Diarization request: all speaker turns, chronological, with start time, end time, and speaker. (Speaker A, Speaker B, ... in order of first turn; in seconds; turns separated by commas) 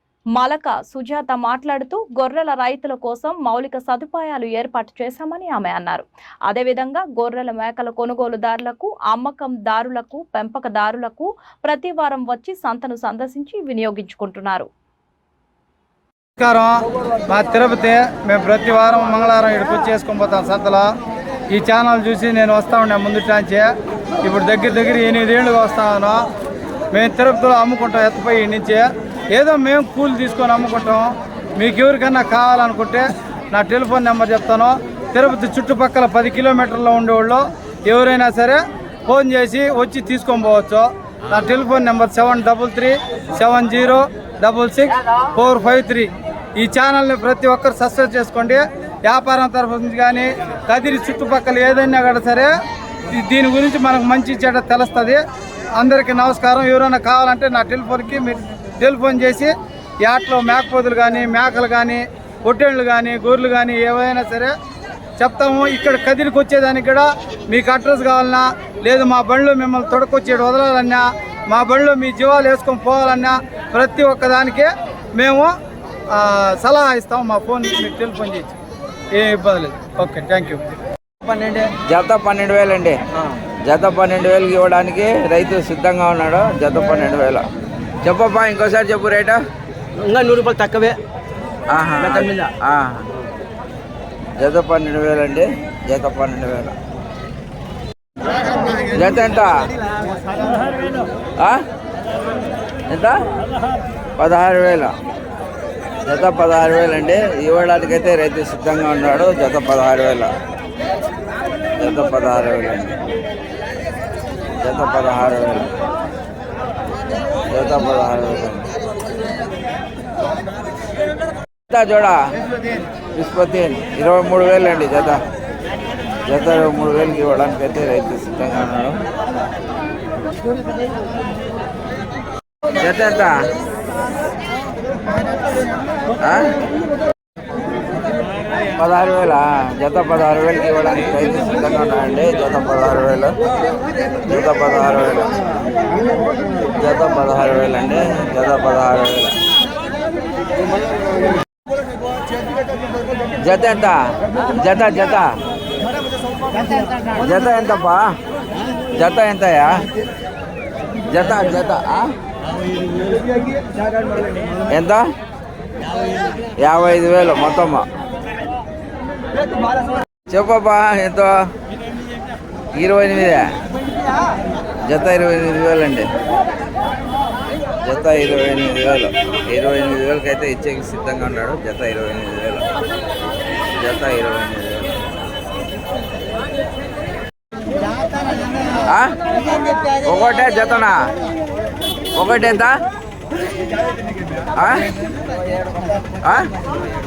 Speaker A: 0.4-14.7, Speaker B: 16.4-20.9, Speaker B: 21.5-23.7, Speaker B: 24.2-26.2, Speaker B: 26.9-52.5, Speaker B: 53.1-55.2, Speaker B: 55.8-59.5, Speaker B: 60.0-64.5, Speaker B: 65.2-75.5, Speaker B: 76.1-78.5, Speaker B: 79.1-80.6, Speaker C: 81.2-81.7, Speaker D: 81.8-83.0, Speaker D: 83.7-87.5, Speaker D: 88.0-89.4, Speaker C: 90.0-91.0, Speaker D: 91.7-93.1, Speaker C: 92.0-92.5, Speaker D: 94.4-96.8, Speaker D: 98.8-99.7, Speaker D: 101.4-101.7, Speaker D: 102.9-103.2, Speaker D: 104.2-104.9, Speaker D: 106.0-110.3, Speaker D: 111.8-113.0, Speaker D: 114.6-115.7, Speaker D: 117.5-118.7, Speaker D: 121.7-122.3, Speaker D: 123.2-125.2, Speaker D: 126.2-129.0, Speaker D: 132.8-133.5, Speaker D: 136.2-136.6, Speaker D: 138.8-143.3, Speaker D: 144.2-145.4, Speaker D: 146.7-149.4, Speaker D: 153.4-155.4, Speaker D: 157.1-158.2, Speaker D: 158.9-159.9, Speaker D: 161.1-162.2, Speaker D: 164.7-165.1, Speaker D: 166.6-167.9, Speaker D: 170.3-171.3, Speaker D: 172.8-173.5, Speaker D: 174.9-176.1, Speaker D: 177.8-182.7, Speaker D: 183.8-185.0, Speaker D: 188.8-189.2, Speaker D: 190.0-191.1, Speaker D: 192.2-192.8, Speaker D: 194.5-194.9, Speaker D: 196.2-196.6